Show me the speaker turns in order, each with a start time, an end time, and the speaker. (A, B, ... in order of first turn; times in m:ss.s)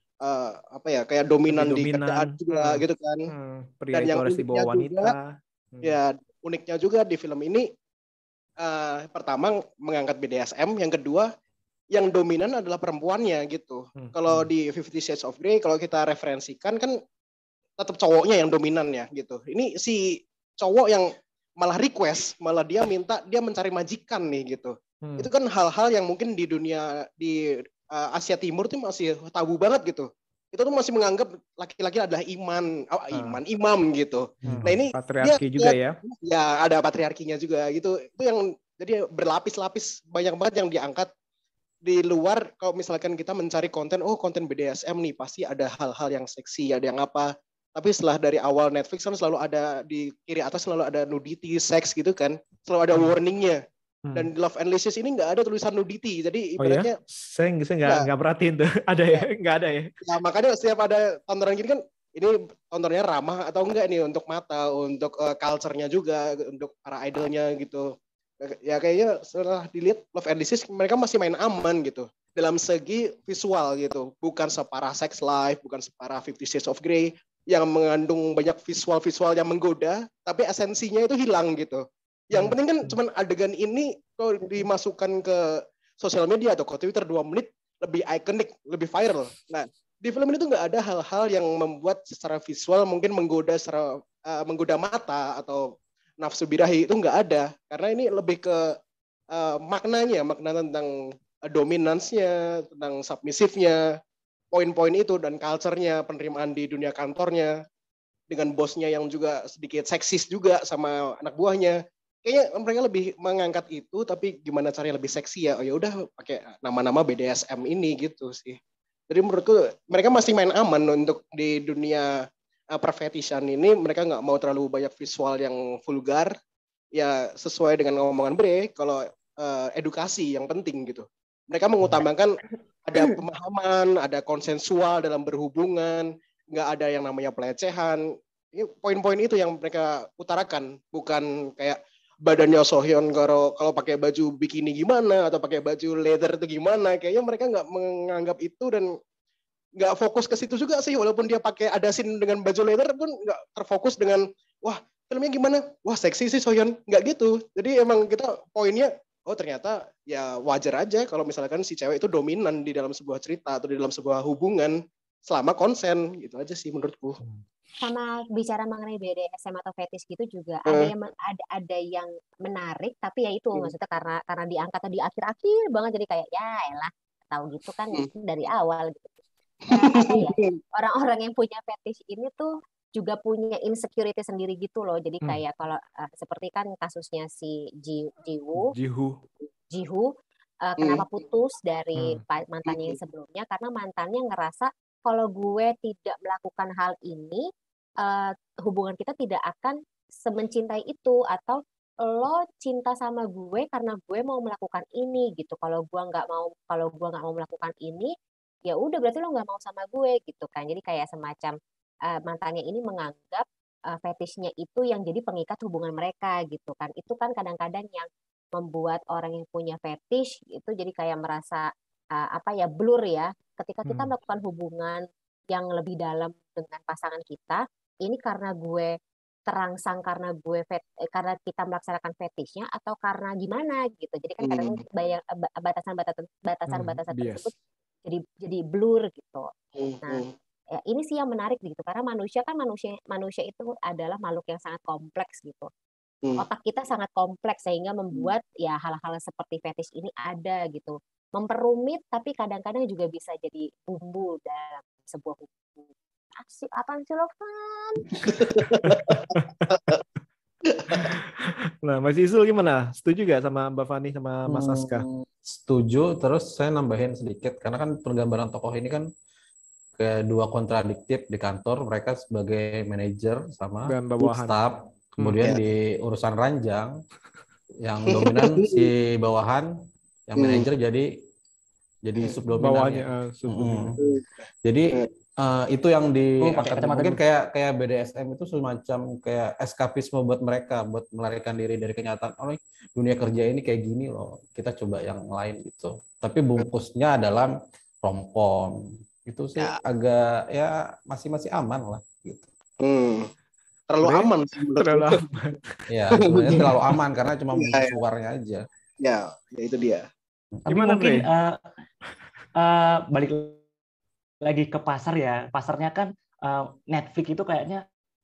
0:00.2-0:03.3 A
0:01.5-0:06.0 B
0:03.9-0:05.1 A
0:05.8-0:07.7 A
0:08.6-0:11.3 A
0:11.9-0:17.0 A
0:14.0-0:14.5 B
0:17.8-0:41.1 A
0:33.1-0:33.4 B
0:34.4-0:36.0 B
0:41.8-0:53.6 A
0:54.1-0:57.0 A
0:56.6-0:59.9 B
1:00.0-1:38.7 A
1:39.3-1:40.9 A
1:41.5-1:43.8 A
1:44.5-1:47.5 A
1:48.3-1:58.6 A
1:59.1-2:02.1 A
2:02.7-2:06.3 A
2:06.9-2:28.9 A
2:29.8-2:47.2 A
2:47.8-3:08.7 C
2:59.7-3:00.5 A
3:08.6-3:09.2 B
3:09.7-3:10.1 C
3:10.6-3:17.4 C
3:12.0-3:12.2 B
3:12.7-3:13.0 A
3:18.0-3:28.1 C
3:28.7-3:31.5 C
3:32.1-3:48.9 C
3:43.8-3:44.1 B
3:49.5-3:57.5 C
3:54.4-3:54.8 A
3:56.7-3:57.5 B
3:58.0-3:59.5 C
3:59.8-4:00.3 A
4:00.8-4:05.7 C
4:06.4-4:18.2 C
4:18.2-4:20.0 A
4:18.7-4:19.9 B
4:20.7-4:21.0 A
4:20.9-4:25.0 B
4:24.5-4:29.0 D
4:30.0-4:37.0 D
4:33.8-4:34.6 B
4:37.8-4:39.7 D
4:38.1-4:38.8 A
4:40.3-4:41.1 D
4:40.4-4:40.6 A
4:42.0-4:44.0 D
4:42.6-4:44.0 B
4:44.6-5:02.5 D
4:46.4-4:47.2 E
5:02.8-5:03.3 A
5:03.9-5:05.2 A
5:04.0-5:05.8 B
5:05.9-5:08.6 D
5:06.3-5:06.7 A
5:07.5-5:07.9 A
5:09.0-5:10.0 A
5:10.7-5:11.6 E
5:10.7-5:11.2 B
5:12.6-5:13.6 E
5:14.4-5:17.8 E